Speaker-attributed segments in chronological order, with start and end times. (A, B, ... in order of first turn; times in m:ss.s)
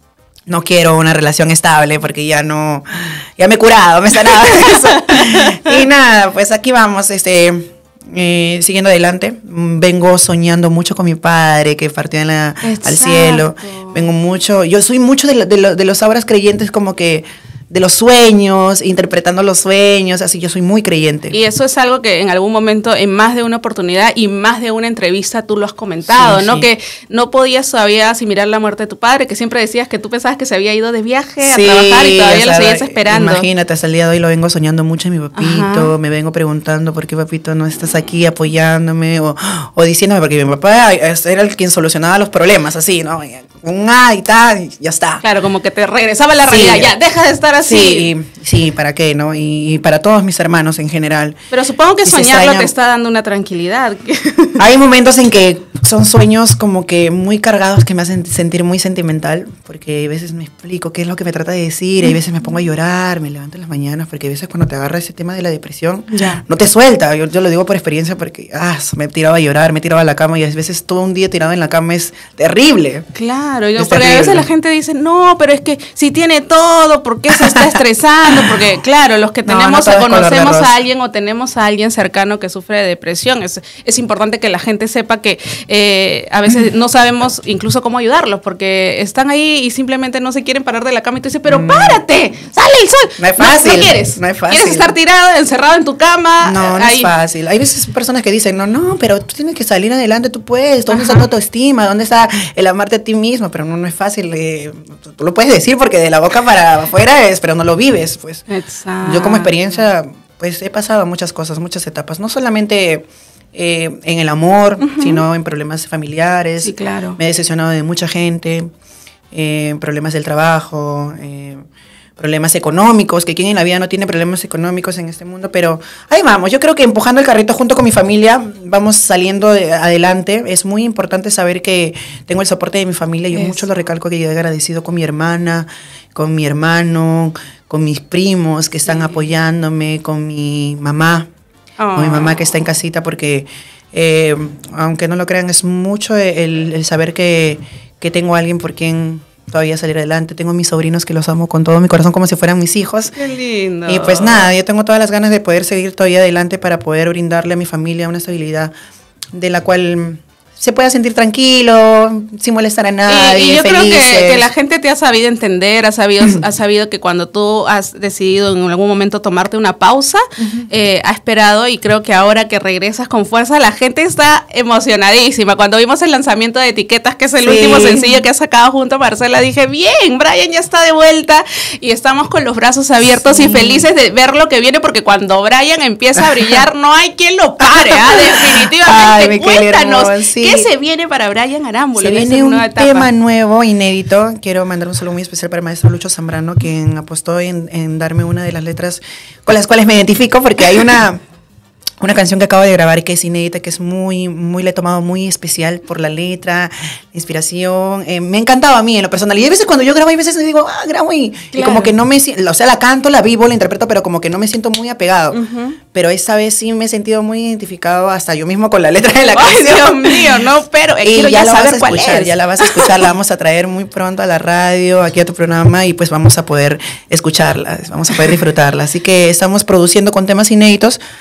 0:00.5-0:21.4 A
0:05.0-0:05.6 B
0:12.6-0:14.0 B
0:21.3-0:33.5 B
0:26.1-0:26.7 A
0:31.4-0:45.2 A
0:35.4-0:35.9 B
0:45.2-0:48.1 B
0:46.4-0:46.9 A
0:47.6-0:51.4 A
0:51.5-0:54.6 B
0:52.0-0:52.7 A
0:54.6-1:13.0 A
1:06.1-1:06.4 B
1:13.1-1:37.1 B
1:13.8-1:14.5 A
1:17.3-1:17.8 A
1:18.3-1:18.6 A
1:19.4-1:20.8 A
1:31.4-1:32.0 A
1:33.2-1:34.9 A
1:36.4-1:48.4 A
1:40.9-1:41.2 B
1:48.5-1:49.5 B
1:49.0-1:58.7 A
1:54.8-1:55.2 B
1:56.6-1:57.2 B
1:59.3-2:01.6 A
2:02.2-2:21.3 A
2:13.3-2:13.6 B
2:21.8-2:22.3 B
2:21.9-2:33.1 A
2:33.2-2:34.5 B
2:33.9-2:38.7 A
2:39.3-2:44.5 A
2:43.1-3:13.1 B
2:50.4-2:50.7 A
2:57.4-2:58.2 A
3:03.1-3:03.9 A
3:07.6-3:10.7 A
3:12.0-3:21.2 A
3:22.0-3:35.4 A
3:31.5-3:31.9 B
3:35.3-3:35.8 B
3:35.9-3:40.4 A
3:39.3-3:43.0 B
3:41.0-3:51.0 A